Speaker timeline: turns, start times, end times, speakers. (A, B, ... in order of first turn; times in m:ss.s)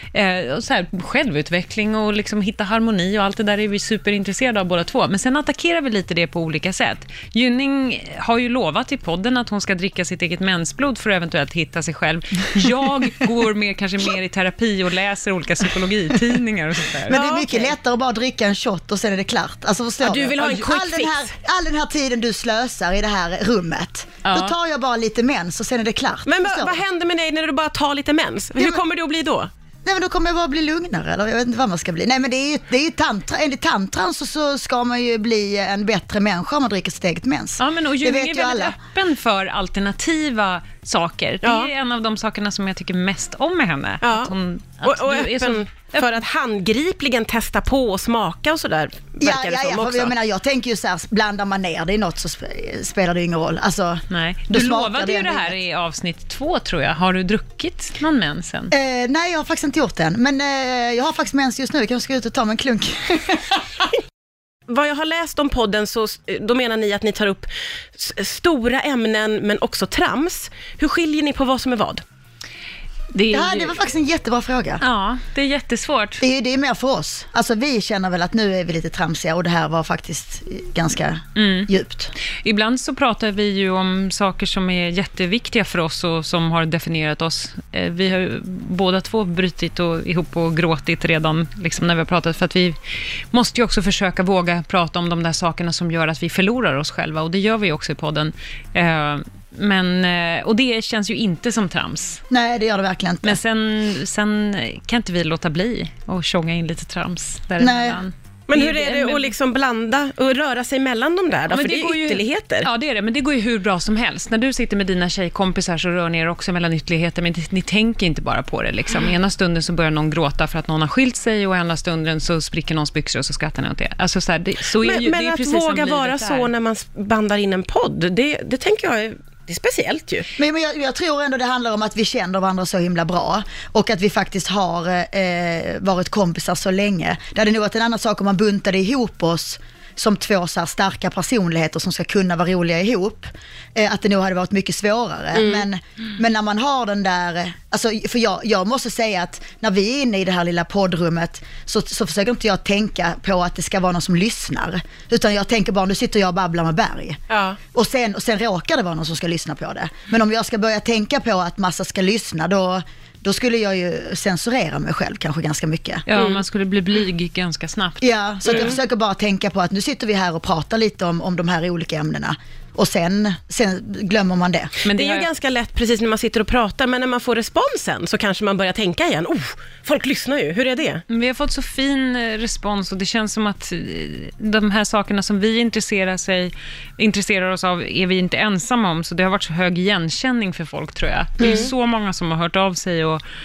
0:00.1-0:17.4 A
0:17.1-0:26.8 B
0:17.2-0:17.7 C
0:20.0-0:21.3 C
0:24.2-0:24.5 A
0:26.2-0:29.5 C
0:29.8-0:38.7 B
0:37.6-0:46.0 A
0:41.4-0:41.7 C
0:44.0-0:50.1 C
0:49.2-0:55.6 B
0:54.1-0:58.7 A
0:58.7-1:03.6 B
1:04.7-1:12.0 C
1:13.1-1:13.7 A
1:13.3-1:14.8 B
1:14.8-1:16.2 A
1:16.2-1:22.1 B
1:21.4-1:21.7 A
1:22.4-1:32.8 A
1:33.3-1:42.2 A
1:42.3-1:43.4 B
1:43.2-1:49.3 A
1:47.6-1:48.0 B
1:48.5-1:52.7 C
1:51.5-2:06.5 A
2:04.8-2:10.3 C
2:10.4-2:37.2 B
2:37.3-2:37.6 C
2:37.7-2:46.0 B
2:46.1-2:48.6 A
2:46.1-2:46.4 C
2:48.0-2:54.7 B
2:48.4-2:48.7 C
2:54.8-2:55.3 A
2:54.8-3:01.0 C
3:01.1-3:13.2 A
3:11.4-3:11.7 C